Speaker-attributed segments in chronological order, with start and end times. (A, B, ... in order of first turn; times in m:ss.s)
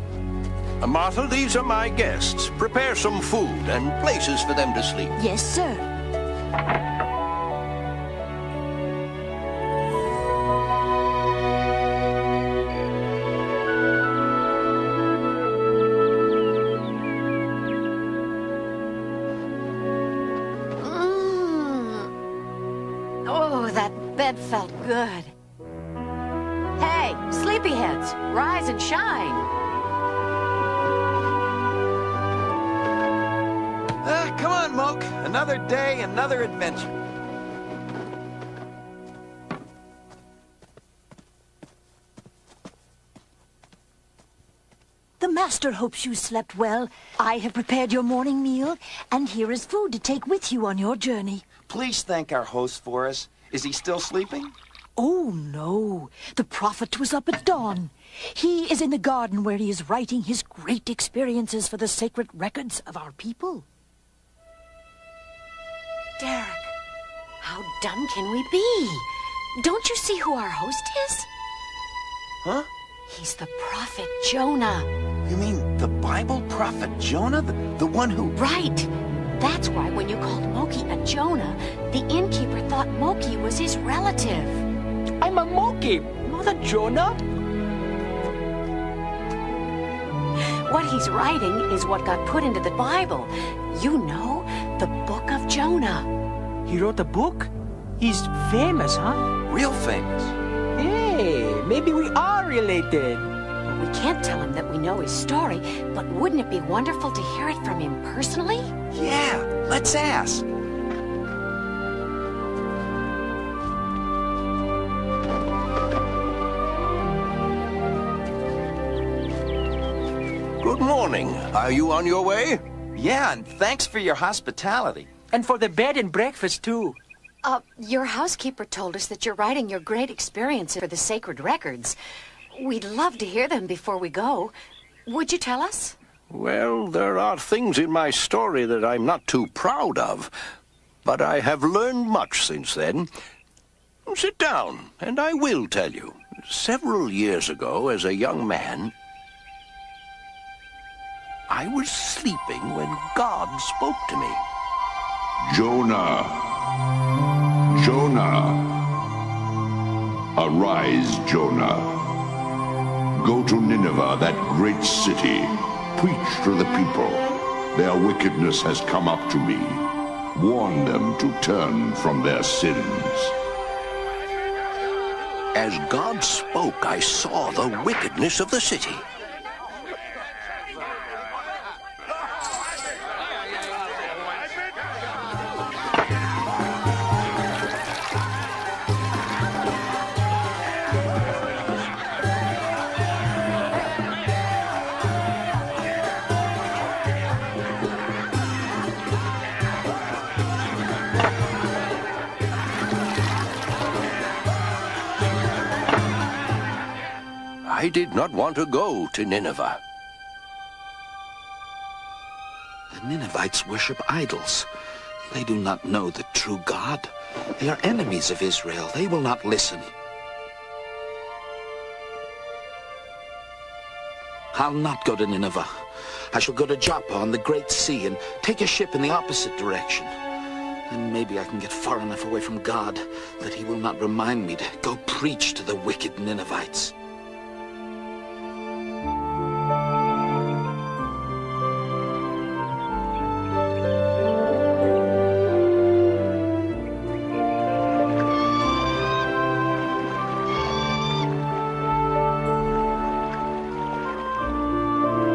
0:00.8-0:05.2 A
0:05.2-0:05.8 B
0:20.8-0:22.1 C
0:23.2-0:25.3 C
0:26.8-0:29.5 C
0:34.0-0:36.9 D
0:45.2-0:51.4 B
0:51.7-0:54.5 D
0:55.0-1:03.6 B
1:06.2-1:06.7 C
1:07.4-1:11.3 C
1:13.1-1:14.9 C
1:15.3-1:18.4 D
1:18.4-1:24.6 C
1:25.2-1:27.2 E
1:30.7-1:36.1 C
1:36.7-1:39.2 E
1:39.5-1:40.4 D
1:40.8-1:43.3 E
1:43.7-1:48.7 C
1:48.9-1:50.5 D
2:00.6-2:02.6 A
2:03.0-2:05.1 D
2:05.3-2:07.0 E
2:07.4-2:12.0 C
2:12.5-2:14.5 C
2:15.1-2:16.0 C
2:16.3-2:20.3 A
2:21.0-2:23.1 A
2:24.1-2:28.9 A
2:31.5-2:34.4 A
2:35.4-2:36.6 F
2:37.7-2:38.8 F
2:40.4-2:42.0 F
2:43.2-2:53.3 F
2:55.5-2:59.1 A
3:27.6-3:29.8 A
3:32.9-3:34.7 G
3:35.3-3:39.8 G
3:44.5-3:45.7 G
3:46.3-3:50.2 G
3:50.9-3:56.9 G